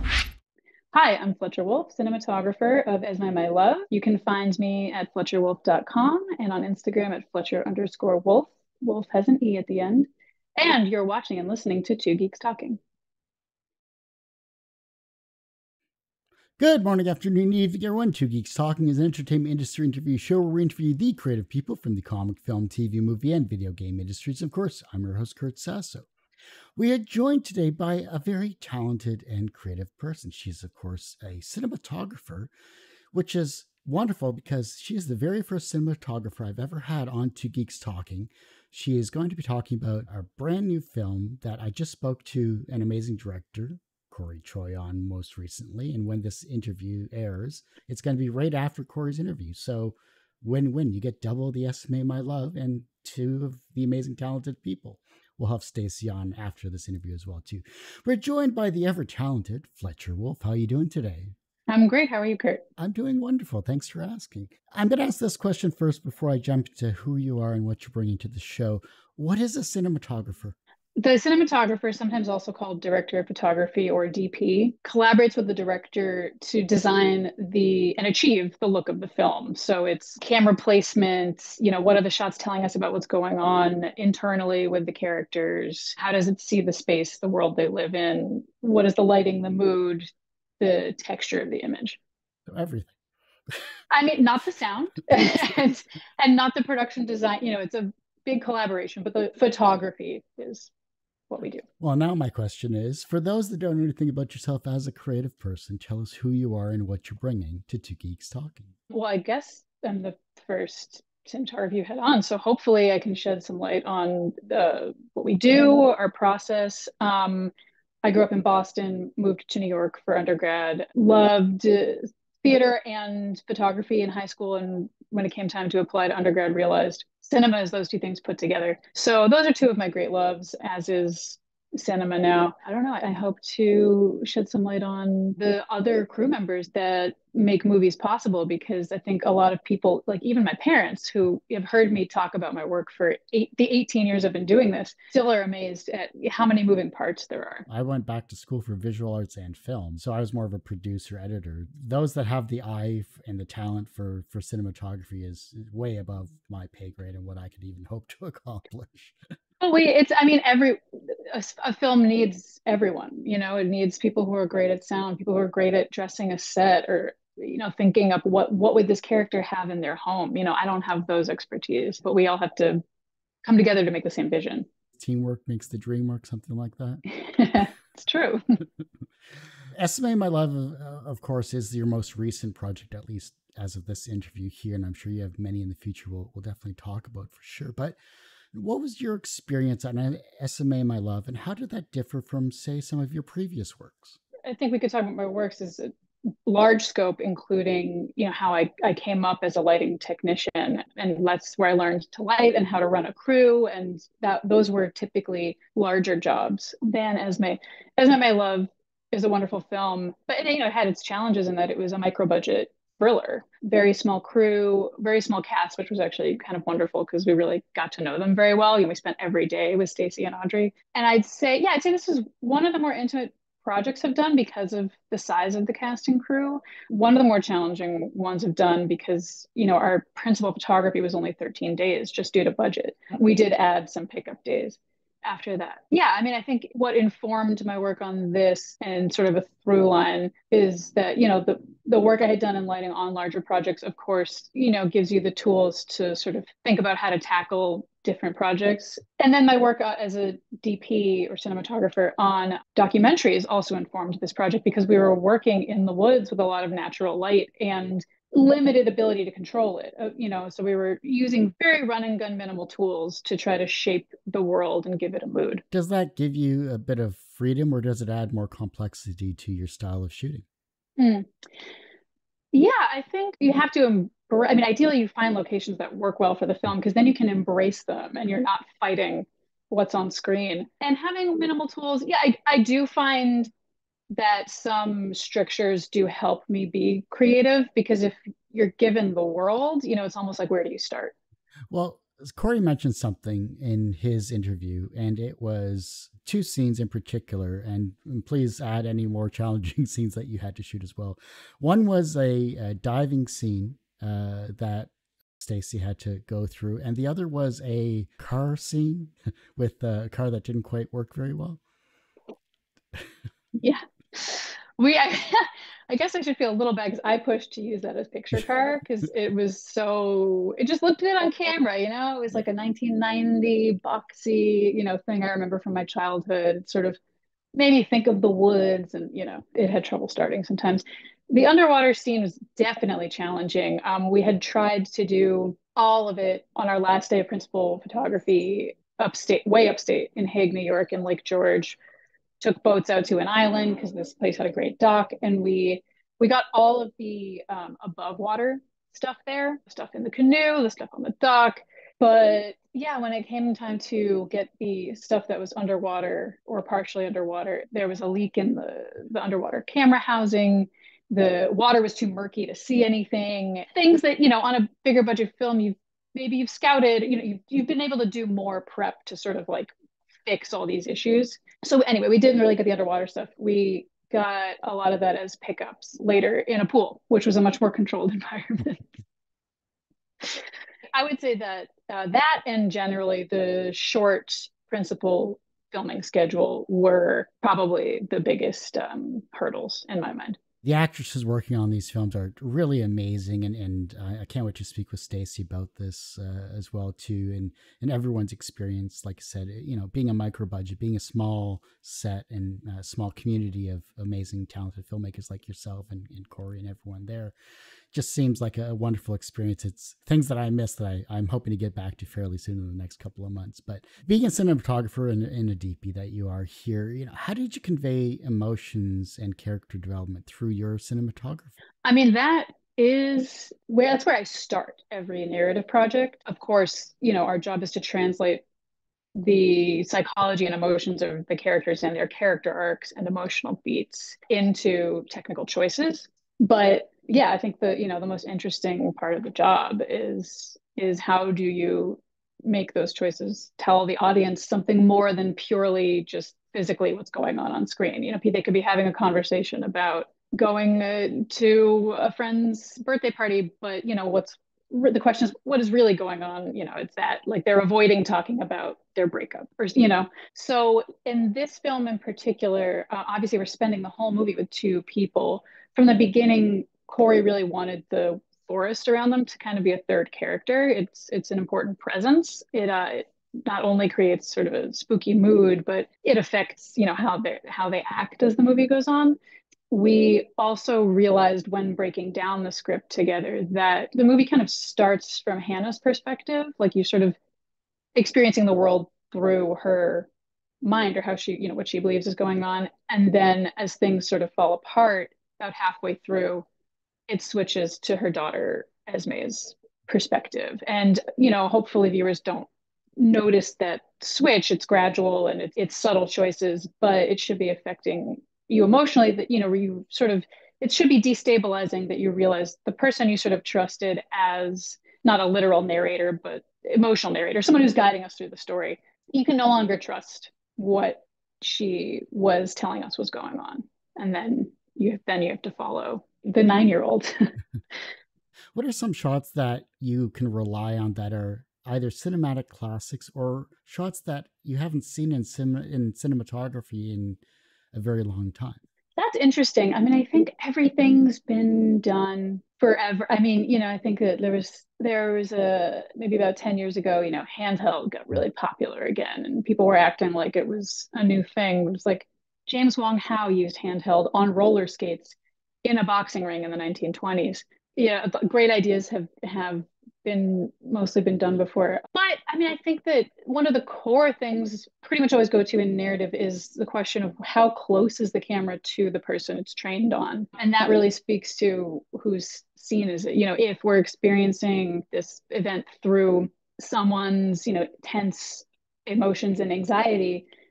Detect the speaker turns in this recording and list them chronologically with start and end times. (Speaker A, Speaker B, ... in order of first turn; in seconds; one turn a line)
Speaker A: 0.9-12.8
Speaker B: 16.6-26.1
Speaker B: 26.8-32.5
Speaker B: 33.1-61.3
Speaker A: 61.7-62.6
Speaker B: 62.8-70.5
Speaker A: 71.0-92.0
Speaker B: 92.5-92.9
Speaker A: 93.9-100.7
Speaker A: 101.3-101.6
Speaker B: 101.8-108.7
Speaker A: 108.9-117.5
Speaker A: 118.0-147.7
Speaker B: 147.7-159.2
Speaker A: 159.6-160.8
Speaker A: 161.3-172.8
Speaker A: 173.4-174.7
Speaker B: 174.9-177.0
Speaker A: 177.1-178.6
Speaker B: 179.7-188.0
Speaker B: 188.5-194.2
Speaker A: 194.4-195.9
Speaker A: 196.4-265.6
Speaker B: 265.7-270.4
Speaker A: 271.0-271.3
Speaker A: 272.5-283.5
Speaker A: 284.1-291.1
Speaker B: 291.7-311.6
Speaker A: 313.6-327.0
Speaker A: 327.5-341.8
Speaker A: 342.4-369.7
Speaker A: 370.2-378.8
Speaker A: 380.2-390.4
Speaker B: 390.6-407.3
Speaker B: 407.9-421.6
Speaker A: 421.8-428.4
Speaker A: 429.1-479.2
Speaker A: 479.7-487.2
Speaker A: 487.9-490.1
Speaker A: 490.6-496.4
Speaker A: 497.1-527.3
Speaker B: 528.5-537.2
Speaker B: 537.7-538.6
Speaker A: 539.0-580.2